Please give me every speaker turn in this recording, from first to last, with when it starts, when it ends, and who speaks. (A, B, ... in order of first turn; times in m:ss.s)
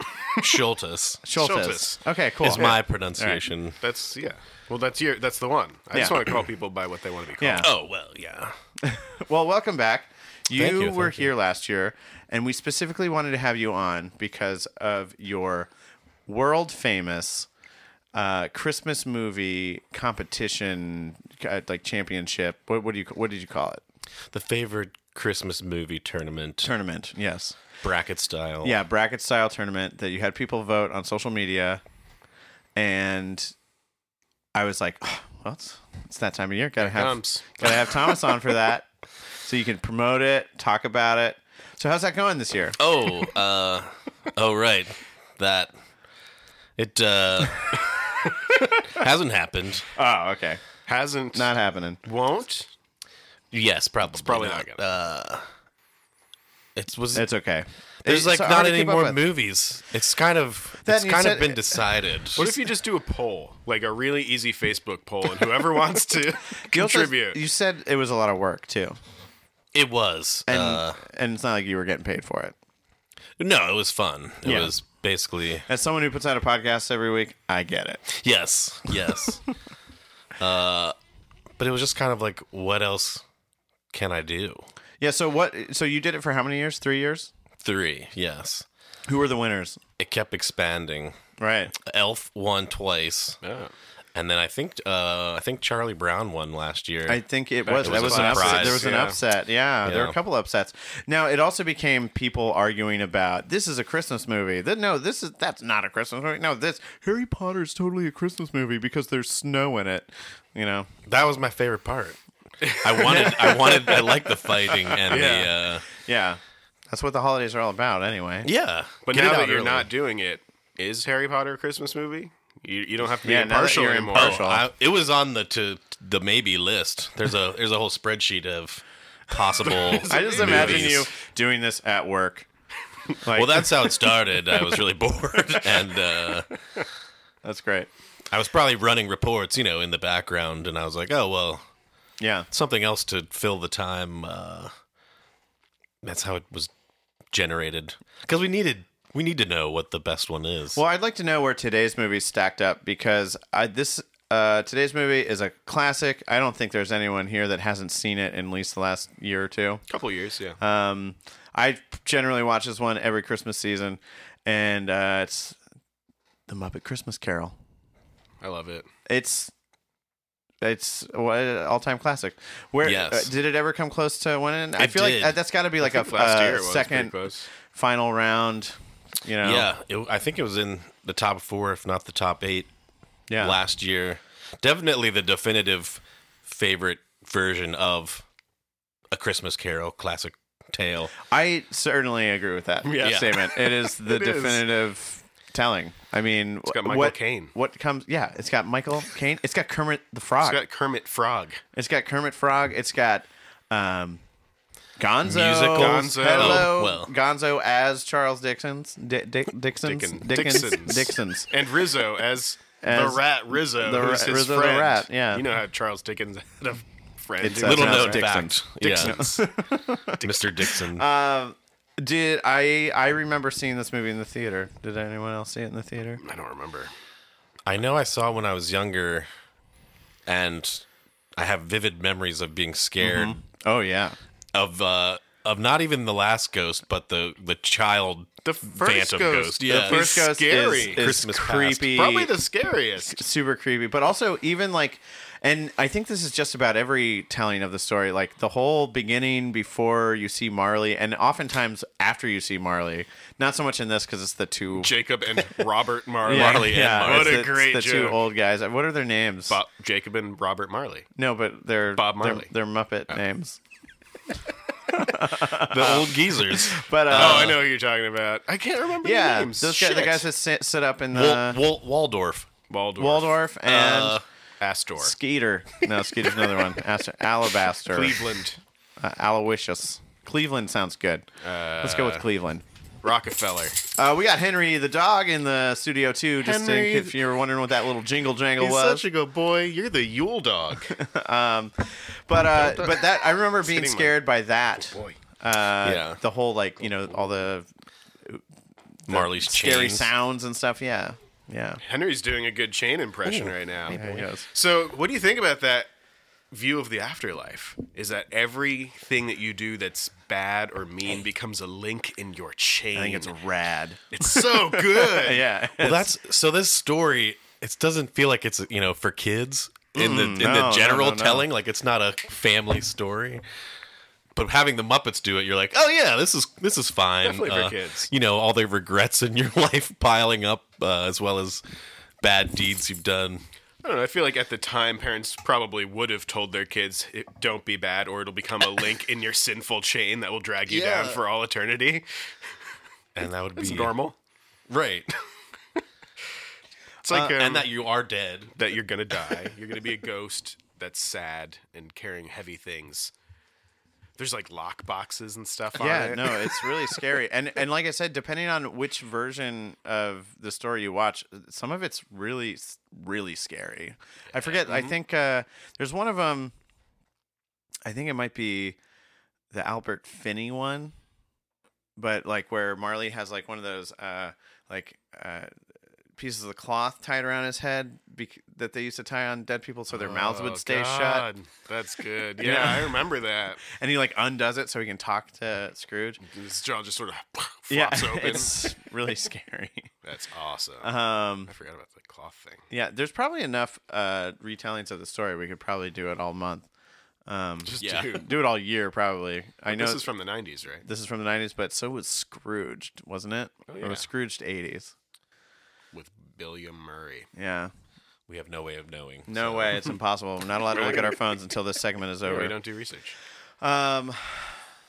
0:00.4-0:01.2 A
0:01.2-0:03.5 B
0:01.4-0:02.8 C
0:02.4-0:03.8 A
0:03.8-0:07.6 C
0:05.9-0:06.2 B
0:07.4-0:07.7 B
0:07.6-0:08.6 A
0:08.8-0:15.7 B
0:10.5-0:11.3 A
0:16.3-0:17.5 B
0:18.1-0:23.8 B
0:24.3-0:26.7 A
0:26.6-0:27.6 B
0:27.8-0:28.8 A
0:28.6-0:31.8 B
0:32.8-0:33.5 B
0:34.5-0:38.9 B
0:36.8-0:37.7 C
0:39.4-0:42.8 B
0:42.8-0:45.7 A
0:46.8-0:48.1 A
0:48.8-0:49.9 A
0:49.9-0:50.6 B
0:50.9-0:51.5 C
0:51.3-0:52.0 B
0:52.0-0:52.7 C
0:53.5-0:55.5 A
0:54.1-0:54.8 C
0:56.8-0:57.3 A
0:57.1-0:59.2 B
0:58.0-1:02.5 A
1:00.8-1:01.8 B
1:02.4-1:07.4 C
1:06.6-1:09.0 B
1:09.7-1:11.0 A
1:10.5-1:12.6 B
1:13.4-1:15.7 A
1:14.4-1:14.7 B
1:15.7-1:18.1 B
1:18.1-1:19.5 A
1:18.9-1:19.3 B
1:20.4-1:21.0 A
1:21.6-1:23.2 A
1:23.9-1:24.7 A
1:25.0-1:27.3 B
1:27.6-1:28.7 A
1:29.1-1:29.8 B
1:30.0-1:31.2 A
1:31.4-1:31.7 B
1:31.8-1:33.4 A
1:33.4-1:33.7 C
1:34.2-1:37.2 A
1:37.1-1:50.9 B
1:37.6-1:39.2 C
1:37.8-1:38.9 A
1:39.8-1:40.2 A
1:51.1-1:52.2 A
1:52.6-1:53.7 C
1:52.7-1:55.9 A
1:53.0-1:55.4 B
1:55.1-1:55.5 C
1:55.9-1:58.5 B
1:58.4-1:59.9 A
1:59.0-2:04.4 C
2:03.2-2:04.7 B
2:04.1-2:11.1 A
2:09.7-2:11.0 C
2:10.0-2:12.5 B
2:13.2-2:13.9 B
2:13.3-2:16.6 A
2:17.4-2:17.9 B
2:18.3-2:21.7 A
2:22.2-2:22.5 B
2:22.5-2:24.7 A
2:26.0-2:26.7 A
2:27.3-2:30.8 A
2:30.8-2:39.8 B
2:39.9-2:40.6 C
2:40.6-2:45.6 B
2:46.5-2:47.6 B
2:48.4-2:48.9 C
2:49.1-2:49.5 B
2:50.6-2:59.7 B
2:52.8-2:53.3 A
2:54.8-2:55.4 A
2:55.8-2:57.5 C
2:59.4-3:02.7 A
3:03.3-3:03.6 B
3:03.4-3:08.2 A
3:09.1-3:11.2 A
3:11.2-3:20.6 B
3:12.8-3:14.7 C
3:13.0-3:13.4 A
3:16.6-3:17.5 C
3:20.4-3:21.6 C
3:21.7-3:24.2 B
3:25.0-3:31.5 B
3:25.2-3:27.1 A
3:25.7-3:26.7 C
3:29.8-3:39.5 C
3:32.8-3:35.5 B
3:37.4-3:46.2 B
3:37.6-3:39.2 A
3:40.1-3:41.1 A
3:46.2-3:46.9 C
3:47.7-3:49.3 A
3:50.3-3:53.4 A
3:53.0-3:54.2 B
3:54.5-4:02.0 A
3:58.4-4:01.2 C
3:59.7-4:02.3 B
4:01.8-4:03.2 C
4:03.1-4:14.9 B
4:14.7-4:18.2 C
4:16.2-4:19.6 B
4:16.3-4:17.5 A
4:19.5-4:21.1 C
4:21.2-4:23.6 B
4:21.9-4:22.5 C
4:24.9-4:27.6 B
4:25.4-4:27.6 A
4:27.1-4:30.3 C
4:29.0-4:31.6 B
4:31.1-4:32.5 A
4:32.7-4:33.4 C
4:33.0-4:34.2 B
4:33.7-4:34.2 A
4:34.6-4:35.2 C
4:35.0-4:38.2 B
4:37.8-4:38.6 C
4:39.0-4:41.3 B
4:41.4-4:42.3 C
4:41.8-4:42.6 B
4:43.0-4:43.8 C
4:44.0-4:49.1 B
4:46.4-4:47.2 C
4:48.6-4:51.0 C
4:50.9-4:57.7 B
4:52.5-4:54.2 C
4:54.9-4:55.2 C
4:55.8-4:56.2 A
4:55.9-4:56.2 C
4:56.9-4:57.3 C
4:59.0-5:01.8 B
4:59.1-5:00.1 A
5:01.8-5:05.9 C
5:03.3-5:04.3 A
5:03.9-5:04.5 B
5:06.5-5:13.3 C
5:12.9-5:16.1 B
5:14.1-5:15.4 C
5:15.8-5:23.4 A
5:20.0-5:21.5 B
5:24.4-5:31.6 A
5:27.2-5:28.1 C
5:32.2-5:33.4 A
5:33.8-5:42.1 C
5:40.7-5:41.2 A
5:43.2-5:43.9 A
5:43.6-5:44.2 C
5:44.7-5:45.1 A
5:47.0-5:47.7 C
5:47.1-5:47.4 B
5:47.4-5:48.6 A
5:48.6-5:53.1 C
5:54.2-5:57.0 C
5:55.8-6:06.6 B
6:04.3-6:04.9 C
6:07.8-6:08.8 B
6:09.5-6:11.0 B
6:12.0-6:15.5 B
6:16.2-6:21.3 B
6:19.9-6:23.6 C
6:22.4-6:23.1 B
6:23.6-6:26.2 B
6:26.2-6:28.6 C
6:27.7-6:29.9 B
6:30.0-6:32.7 C
6:30.8-6:31.5 B
6:32.7-6:36.7 B
6:37.3-6:40.0 B
6:37.6-6:38.3 C
6:37.8-6:38.2 A
6:39.7-6:40.8 C
6:40.8-6:45.0 B
6:43.7-6:44.1 C
6:45.9-6:47.3 C
6:47.4-6:47.7 B
6:48.3-6:49.9 A
6:49.3-6:52.6 B
6:50.7-6:51.1 C
6:52.2-6:53.2 C
6:53.6-6:54.7 B